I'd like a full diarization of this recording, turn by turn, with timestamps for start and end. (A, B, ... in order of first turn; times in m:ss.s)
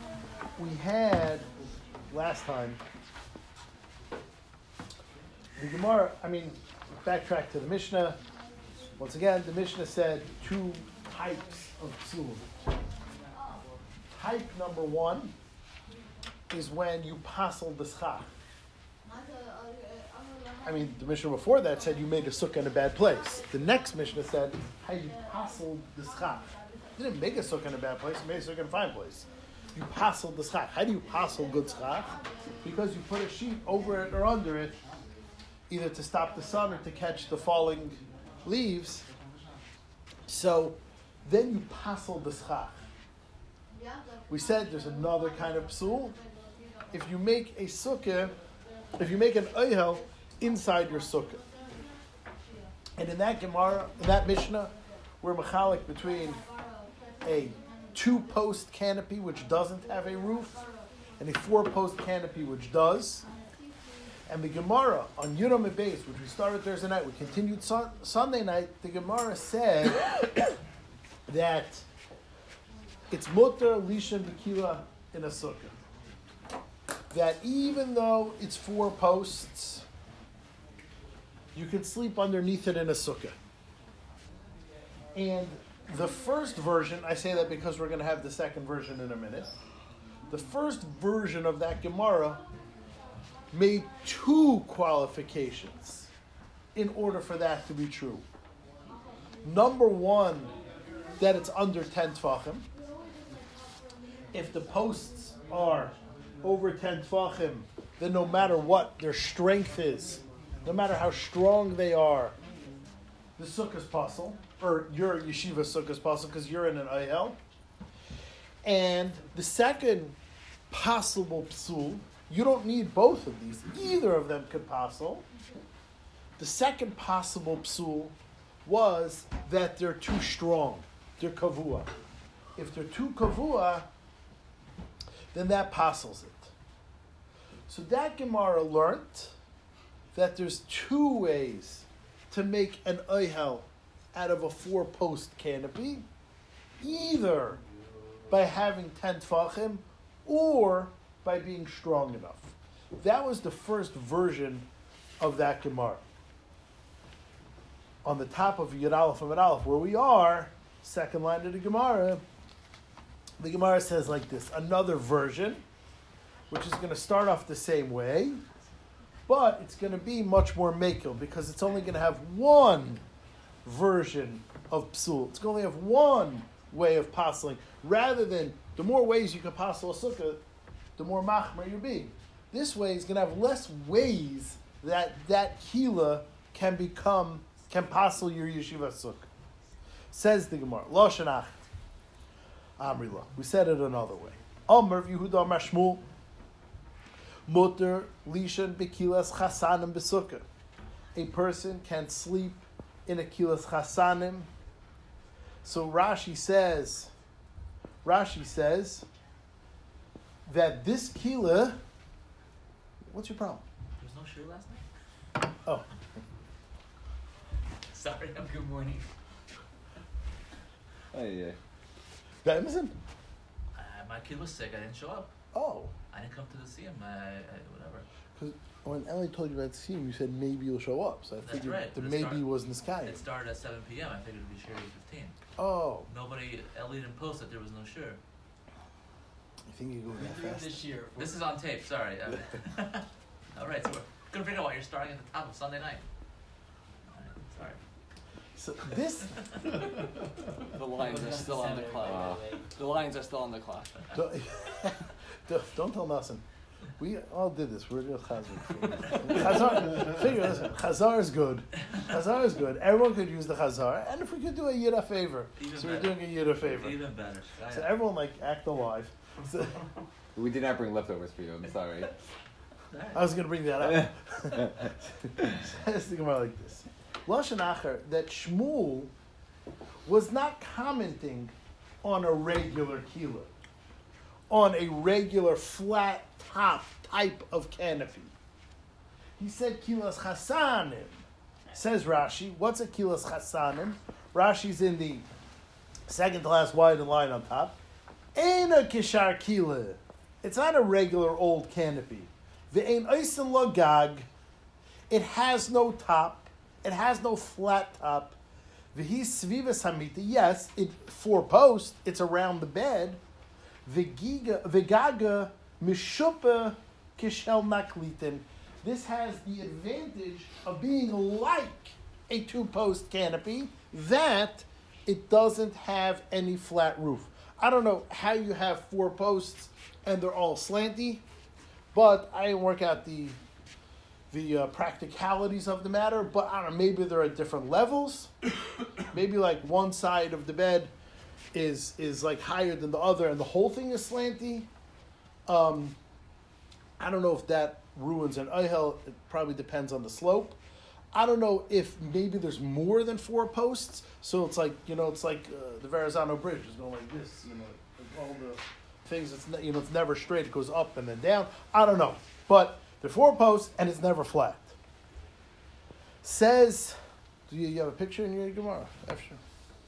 0:00.6-0:01.5 A
0:02.1-0:02.8 A
0:05.6-0:08.2 A
0:09.0-0:12.5 A
0:14.1-0:15.3 A
0:16.5-0:18.3 A
0:20.6-0:34.8 A
0:35.7-0:39.0 A
0:40.3-0:42.8 A
0:44.3-0:46.2 A
0:46.9-0:48.3 A
0:49.0-0:51.4 A
0:53.0-0:56.4 A
0:57.2-1:00.6 A
1:01.2-1:03.2 A
1:04.3-1:10.1 A
1:11.3-1:11.8 A
1:13.1-1:15.7 A
1:17.1-1:19.8 A
1:21.5-1:23.4 A
1:25.1-1:29.5 A
1:30.3-1:32.4 A
1:33.5-1:36.1 A
1:36.7-1:38.2 A
1:39.4-1:40.5 A
1:41.2-1:42.7 A
1:44.3-1:52.3 A
1:53.4-1:57.4 A
1:58.6-2:00.2 A
2:00.7-2:05.2 A
2:06.4-2:11.9 A
2:12.6-2:13.9 A
2:15.3-2:16.5 A
2:17.7-2:19.3 A
2:20.1-2:26.0 A
2:26.8-2:27.6 A
2:28.3-2:34.7 A
2:35.2-2:36.0 A
2:38.0-2:42.2 A
2:43.4-2:45.6 A
2:46.5-2:48.4 A
2:49.3-2:53.0 A
2:53.6-3:00.4 A
3:01.0-3:09.3 A
3:10.1-3:11.6 A
3:12.8-3:16.0 A
3:17.5-3:20.4 A
3:21.1-3:24.5 A
3:25.6-3:27.1 A
3:28.0-3:29.0 A
3:30.5-3:31.8 A
3:33.1-3:33.6 A
3:34.0-3:34.8 B
3:37.9-3:39.1 B
3:41.1-3:41.6 C
3:42.4-3:43.0 A
3:43.7-3:45.3 B
3:45.5-3:45.9 A
3:46.1-3:48.0 B
3:48.4-3:53.2 A
3:51.4-3:52.5 B
3:53.0-3:55.3 B
3:55.6-3:56.1 A
3:56.1-3:58.2 B
3:59.7-4:00.8 A
4:00.2-4:06.0 B
4:07.1-4:07.8 B
4:08.6-4:09.5 A
4:10.7-4:14.1 D
4:10.9-4:12.6 B
4:12.0-4:12.4 C
4:14.1-4:16.4 A
4:17.0-4:27.0 A
4:25.6-4:27.9 B
4:27.7-4:29.8 A
4:30.4-4:32.1 C
4:32.9-4:33.2 B
4:33.1-4:39.1 A
4:40.0-4:43.5 A
4:44.5-4:48.3 A
4:49.4-4:55.2 A
4:56.1-4:57.8 A
4:58.3-5:04.3 A
5:05.1-5:08.4 A
5:08.9-5:13.2 A
5:13.8-5:31.2 A
5:31.9-5:33.4 A
5:34.3-5:38.3 A
5:39.1-5:40.9 A
5:41.5-5:44.7 A
5:45.5-5:46.0 A
5:47.0-5:50.6 A
5:51.1-6:04.8 A
6:06.2-6:09.4 A